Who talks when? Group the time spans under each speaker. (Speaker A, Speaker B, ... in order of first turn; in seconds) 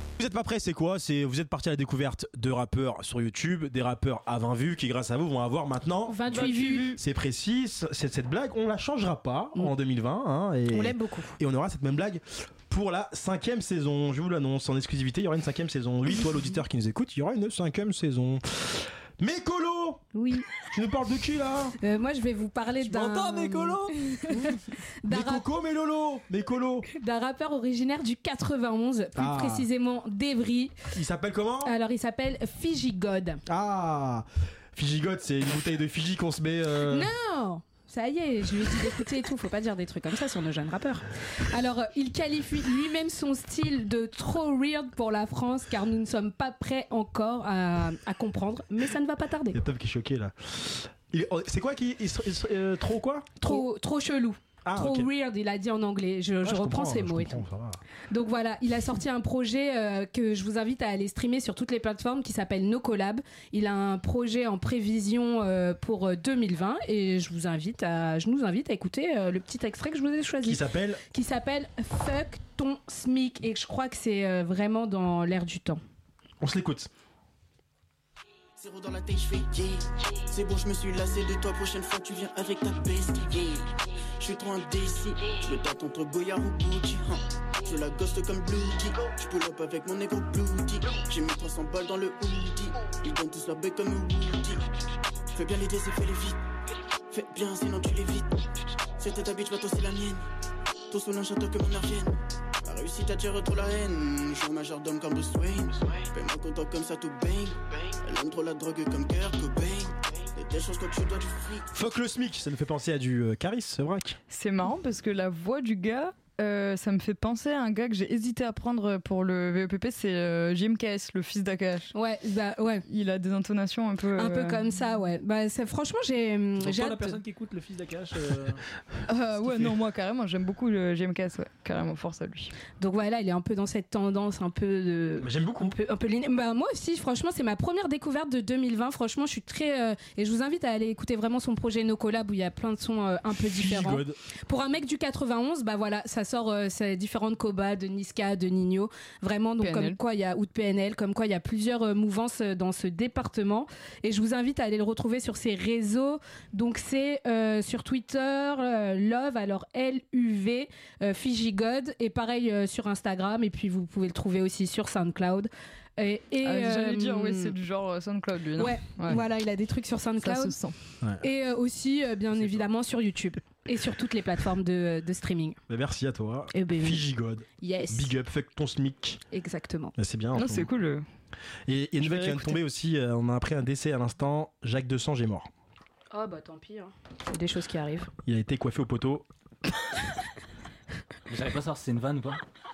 Speaker A: 0.2-20.0, 20.6-21.8, 25.1-26.9, 29.1-29.7, 30.9-31.8, 33.5-37.1, 49.5-53.6, 54.6-55.1, 56.4-57.8, 70.4-71.0, 76.4-76.9, 111.7-114.2, 135.2-135.8, 143.4-144.2, 175.7-179.2, 180.0-180.7, 181.7-185.5, 188.2-189.3
Speaker B: 6.1-7.0, 10.7-11.4, 20.1-20.5, 21.8-25.4, 26.9-30.8, 31.6-33.4, 36.9-49.6, 53.4-57.5, 58.1-70.6, 71.1-75.8, 121.9-122.8, 124.2-127.2, 132.8-167.5, 168.6-170.6, 171.2-175.6, 176.5-177.1, 177.6-178.2, 179.3-179.9, 186.1-188.1
Speaker C: 6.3-7.0, 114.3-121.9, 122.9-124.7, 129.1-132.5, 149.6-150.0, 166.4-169.2, 170.2-170.8, 180.3-181.1, 182.0-182.6
Speaker D: 22.8-24.0, 126.6-128.6, 191.3-192.4
Speaker E: 78.6-94.7, 95.3-96.4, 97.1-98.3, 99.0-100.2, 100.9-111.7